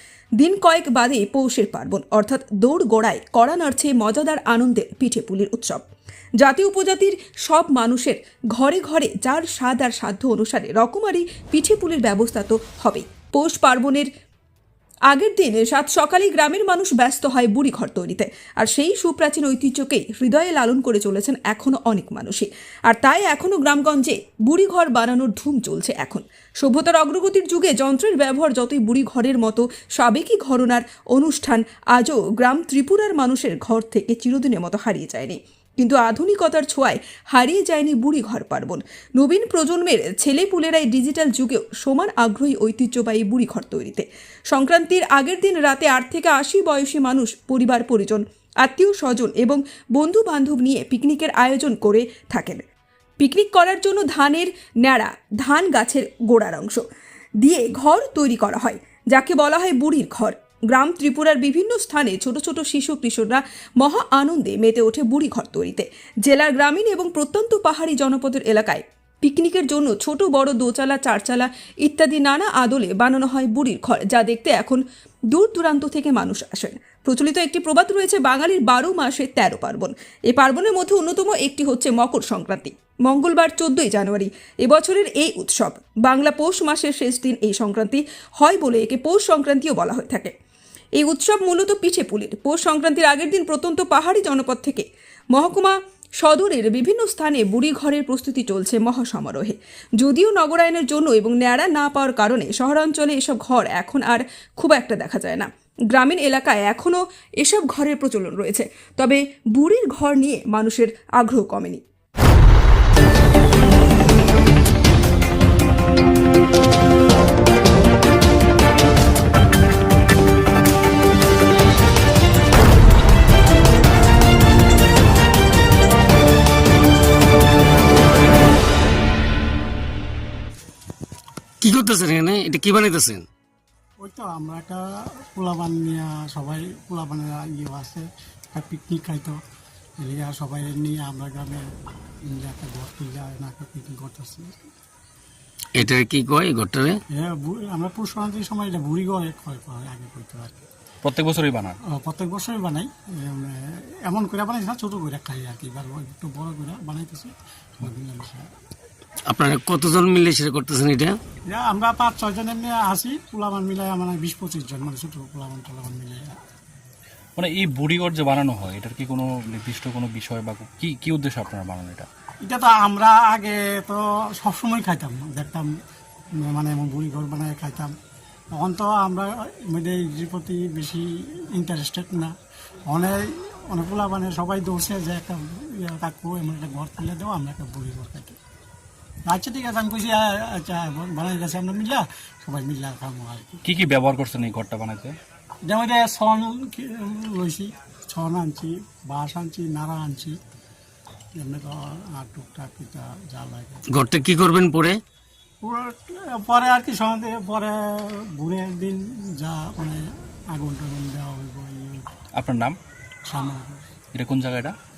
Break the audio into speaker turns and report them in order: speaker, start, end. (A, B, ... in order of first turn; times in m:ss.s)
0:00.4-0:05.8 A
0:06.4-0:14.1 A
0:15.1-0:52.6 A
0:53.2-0:56.8 A
0:57.4-1:14.8 A
1:15.3-1:30.3 A
1:31.0-1:51.8 A
2:11.6-2:13.2 B
2:14.0-2:19.4 C
2:20.0-2:21.6 C
2:22.2-2:24.6 C
2:25.8-2:27.0 B
2:27.1-2:30.6 C
2:31.0-2:31.8 D
2:31.8-2:38.5 C
2:39.3-2:41.2 B
2:41.5-2:46.4 C
2:47.4-2:52.1 D
2:52.4-2:55.7 C
2:56.4-2:57.9 C
2:58.5-3:02.3 C
3:02.9-3:08.4 C
3:09.3-3:13.6 C
3:13.6-3:15.1 D
3:15.6-3:20.4 C
3:21.4-3:23.8 C
3:23.9-3:25.0 B
3:25.6-3:32.0 C
3:32.3-3:32.8 D
3:33.2-3:33.8 C
3:34.1-3:34.7 D